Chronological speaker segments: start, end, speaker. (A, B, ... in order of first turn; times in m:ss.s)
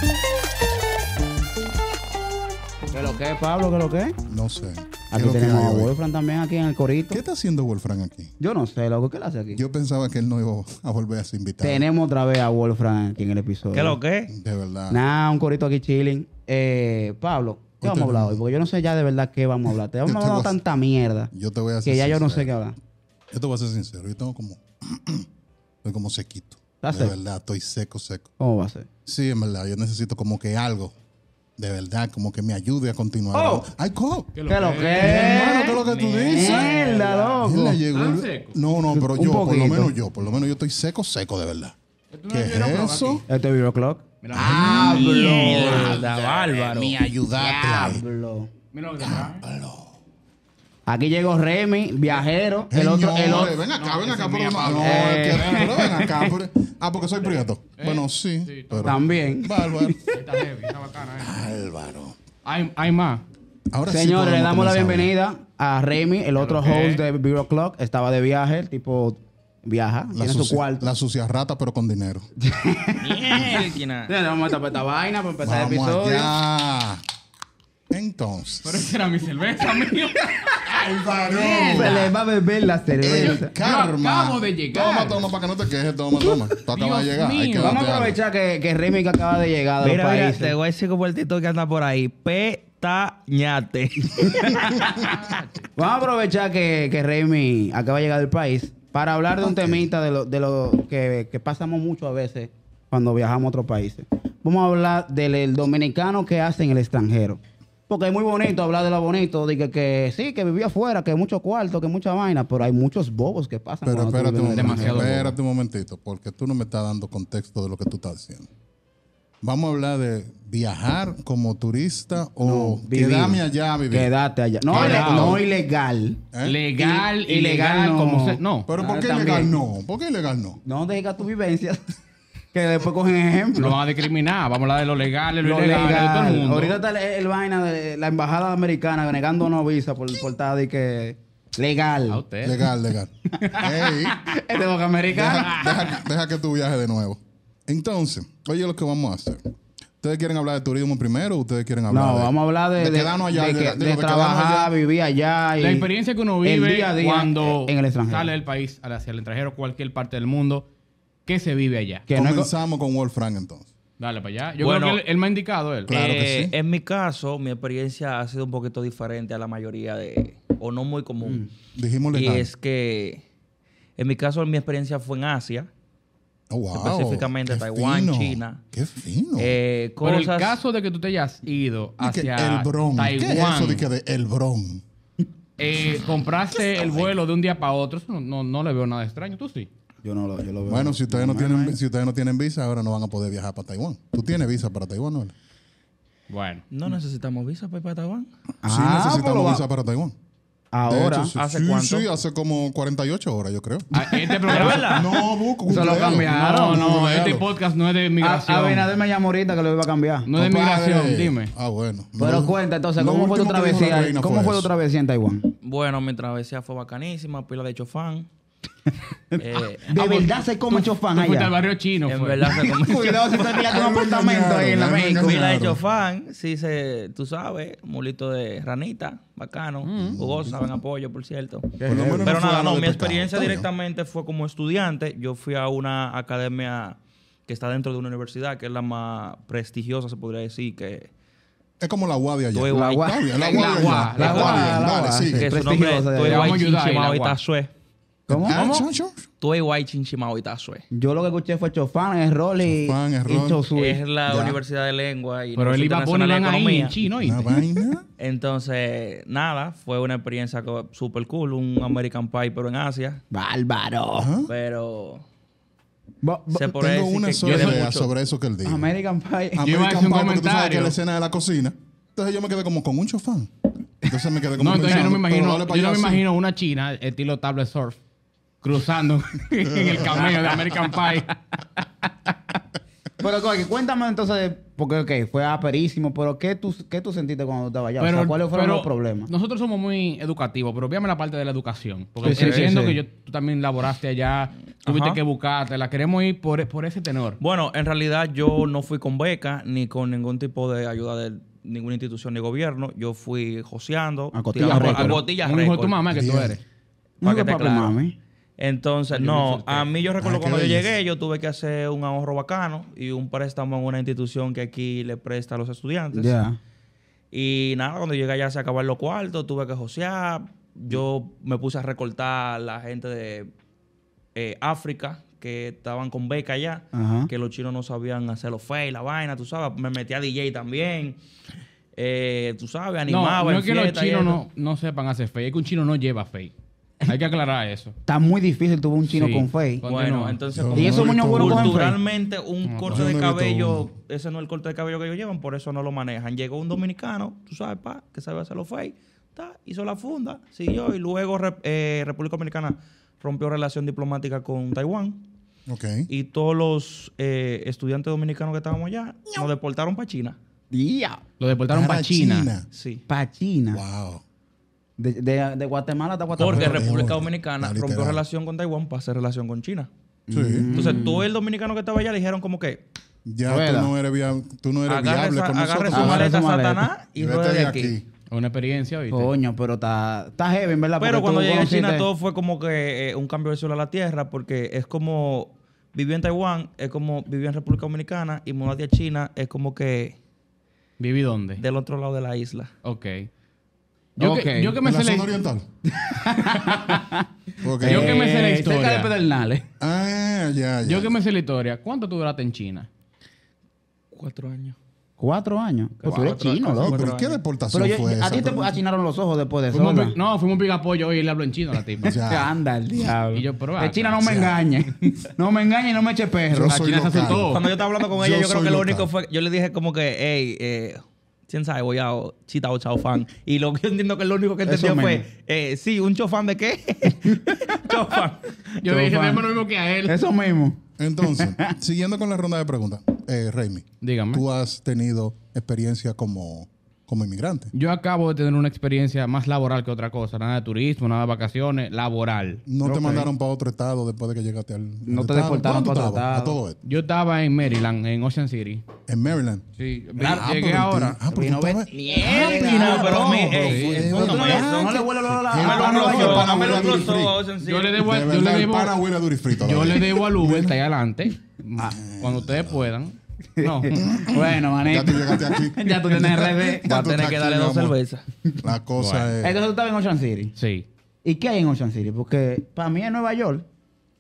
0:02.9-0:04.2 A
0:04.3-0:05.9 B
0:05.1-0:07.2 A
0:07.1-0:08.3 B
0:08.4-0:09.6 A
0:09.5-0:11.9 B
0:11.6-0:14.0 A
0:13.7-0:14.3 C
0:14.3-0:15.0 B
0:14.9-0:21.3 A
0:17.8-0:18.4 B
0:20.0-0:20.6 B
0:21.3-0:22.5 B
0:21.8-0:22.8 A
0:23.3-0:25.3 B
0:25.8-0:28.3 B
0:26.8-0:27.2 A
0:28.4-0:28.9 A
0:29.1-0:31.0 B
0:31.6-0:34.3 B
0:33.3-0:33.7 A
0:34.3-0:35.7 D
0:34.5-0:35.8 A
0:34.8-0:41.8 B
0:35.5-0:37.3 C
0:36.3-0:37.8 A
0:37.9-0:38.6 D
0:38.9-0:39.9 A
0:42.1-0:43.2 D
0:42.3-0:43.2 B
0:43.3-0:46.0 A
0:44.2-0:45.0 D
0:44.3-0:48.0 B
0:44.7-0:47.0 C
0:47.3-0:48.5 A
0:48.7-0:49.4 D
0:49.0-0:49.9 B
0:50.9-0:53.5 A
0:52.7-1:00.0 B
0:53.2-0:55.7 D
0:54.8-0:56.3 A
0:57.8-0:59.0 D
0:58.8-1:00.2 A
1:00.1-1:01.4 D
1:01.2-1:02.2 B
1:02.4-1:03.2 D
1:03.7-1:05.1 B
1:03.9-1:10.8 A
1:06.4-1:07.0 D
1:10.1-1:12.3 B
1:12.4-1:16.3 A
1:13.0-1:14.1 C
1:15.4-1:17.0 B
1:17.9-1:18.9 B
1:18.6-1:22.1 D
1:20.7-1:22.1 B
1:21.7-1:23.5 A
1:23.0-1:28.2 B
1:23.2-1:25.3 D
1:26.7-1:27.8 D
1:27.6-1:30.6 A
1:29.8-1:34.6 C
1:34.1-1:35.1 A
1:34.8-1:35.7 D
1:35.8-1:55.2 A
1:39.4-1:39.9 B
1:53.8-1:58.5 B
1:54.5-1:55.3 D
1:59.4-2:04.1 B
2:02.4-2:06.2 A
2:04.7-2:05.4 D
2:04.7-2:05.4 B
2:06.3-2:06.6 B
2:06.4-2:08.7 D
2:06.8-2:09.5 A
2:08.7-2:10.6 B
2:10.6-2:12.0 A
2:12.5-2:13.8 A
2:13.6-2:16.8 D
2:15.4-2:22.2 A
2:22.1-2:22.6 D
2:22.4-2:24.3 B
2:23.3-2:25.9 A
2:25.1-2:29.4 B
2:30.0-2:34.7 B
2:31.9-2:35.9 A
2:35.6-2:40.7 D
2:36.4-2:38.3 A
2:41.3-2:42.1 D
2:42.1-2:42.5 A
2:42.1-2:43.7 B
2:44.0-2:46.0 D
2:44.6-2:45.0 C
2:45.9-2:46.5 B
2:45.9-2:51.5 C
2:51.2-2:51.5 A
2:51.8-2:52.5 B
2:52.1-2:53.2 C
2:54.0-2:55.7 C
2:56.5-2:59.6 B
2:56.7-2:58.6 C
2:59.4-3:00.6 C
3:00.0-3:03.9 D
3:02.0-3:04.8 B
3:05.6-3:09.7 D
3:06.6-3:07.2 B
3:10.0-3:11.8 A
3:10.7-3:15.3 B
3:16.3-3:16.6 D
3:16.7-3:18.3 C
3:18.6-3:19.6 A
3:18.7-3:20.2 B
3:20.7-3:21.3 A
3:20.9-3:23.9 B
3:21.4-3:22.1 C
3:23.9-3:26.9 A
3:23.9-3:25.0 D
3:24.5-3:25.1 C
3:24.8-3:27.5 B
3:26.2-3:28.9 D
3:28.2-3:30.3 A
3:30.3-3:31.5 D
3:30.3-3:34.7 B
3:32.2-3:35.5 A
3:35.6-3:38.3 C
3:39.3-3:41.5 A
3:39.4-3:40.4 C
3:40.7-3:42.5 D
3:42.1-3:43.7 C
3:42.5-3:45.3 A
3:43.7-3:45.8 B
3:45.2-4:01.1 C
3:49.8-3:50.2 D
3:50.0-3:50.6 B
3:51.8-3:52.4 A
3:51.8-3:53.7 B
4:01.8-4:05.5 B
4:02.5-4:04.8 C
4:02.7-4:06.6 A
4:03.4-4:04.8 D
4:05.3-4:07.7 C
4:06.2-4:07.4 D
4:08.3-4:08.6 A
4:08.3-4:09.2 B
4:08.5-4:08.9 D
4:09.4-4:10.8 C
4:10.9-4:14.6 A
4:12.6-4:13.6 B
4:13.7-4:17.0 C
4:15.6-4:17.6 D
4:17.2-4:18.1 B
4:18.2-4:23.2 C
4:23.3-4:24.3 A
4:24.2-4:24.5 B
4:24.5-4:25.2 C
4:26.2-4:26.8 A
4:26.5-4:28.1 C
4:26.8-4:28.9 B
4:27.4-4:27.9 D
4:28.6-4:29.6 A
4:29.6-4:33.5 B
4:29.6-4:31.0 D
4:34.0-4:36.2 B
4:34.6-4:38.0 D
4:38.6-4:41.4 D
4:39.9-4:40.7 A
4:43.2-4:49.3 A
4:48.0-4:57.4 D
4:52.2-4:53.0 A
4:52.2-4:52.7 C
4:54.9-4:55.2 C
4:57.4-5:06.0 C
5:04.3-5:05.2 A
5:04.6-5:06.6 D
5:06.1-5:06.5 B
5:07.2-5:08.0 C
5:07.2-5:08.2 A
5:08.6-5:16.4 C
5:09.1-5:09.9 D
5:10.2-5:10.9 B
5:16.1-5:16.6 A
5:17.3-5:23.5 C
5:24.4-5:31.2 C
5:26.9-5:27.3 A
5:32.0-5:34.4 C
5:33.1-5:36.5 D
5:37.0-5:38.0 D
5:38.1-5:39.8 A
5:39.1-5:40.4 D
5:39.8-5:55.2 C
5:40.5-5:41.9 B
5:40.7-5:42.0 A
5:42.7-5:43.1 D
5:42.9-5:43.9 B
5:55.7-5:56.1 B
5:56.1-6:00.4 C
6:00.7-6:01.2 A
6:01.4-6:02.5 D
6:01.7-6:02.7 B
6:02.7-6:03.0 C
6:03.1-6:03.8 A
6:03.7-6:04.2 B
6:05.0-6:06.9 A
6:06.4-6:08.2 B
6:06.4-6:09.9 C
6:10.3-6:11.2 A
6:10.3-6:11.0 B
6:10.7-6:12.8 C
6:13.3-6:16.3 B
6:13.5-6:13.9 A
6:14.9-6:17.9 C
6:15.9-6:16.9 A
6:17.2-6:18.0 B
6:18.3-6:19.3 D
6:19.1-6:22.1 A
6:21.0-6:30.2 C
6:31.0-6:31.6 D
6:31.6-6:32.7 C
6:32.8-6:33.3 D
6:34.2-6:35.3 D
6:34.2-6:34.8 A
6:34.8-6:35.6 B
6:35.9-6:37.3 A
6:37.6-6:38.2 B
6:37.8-6:39.7 A
6:37.8-6:39.1 D
6:39.8-6:41.1 B
6:40.8-6:42.9 D
6:44.1-6:44.8 C
6:45.2-6:47.1 A
6:46.0-6:47.4 C
6:46.8-6:48.8 B
6:47.7-6:50.2 A
6:49.7-6:52.2 D
6:52.0-6:53.1 B
6:52.0-6:57.4 A
6:53.3-6:54.5 D
6:54.2-6:54.6 B
6:56.5-6:59.1 B
6:56.6-6:57.6 D
6:57.5-7:08.5 C
7:04.7-7:05.2 A
7:07.1-7:08.0 A
7:08.8-7:10.2 D
7:08.8-7:09.5 A
7:10.1-7:11.7 A
7:11.0-7:17.7 B
7:14.0-7:14.4 D
7:17.7-7:22.6 D
7:22.7-7:26.8 B
7:22.8-7:23.3 A
7:25.1-7:26.6 A
7:26.8-7:28.8 D
7:29.1-7:29.7 B
7:29.8-7:31.2 D
7:30.2-7:37.4 B
7:31.3-7:37.1 A
7:31.9-7:38.0 C
7:32.6-7:34.2 D
7:37.6-7:39.0 D
7:38.0-7:40.8 B
7:39.5-7:44.0 D
7:41.8-7:42.9 B
7:43.6-7:47.1 A
7:44.0-7:48.0 B
7:46.8-7:48.2 C
7:48.6-7:49.6 B
7:49.0-7:49.3 D
7:49.4-7:50.5 A
7:50.6-7:50.9 D
7:51.2-7:53.7 A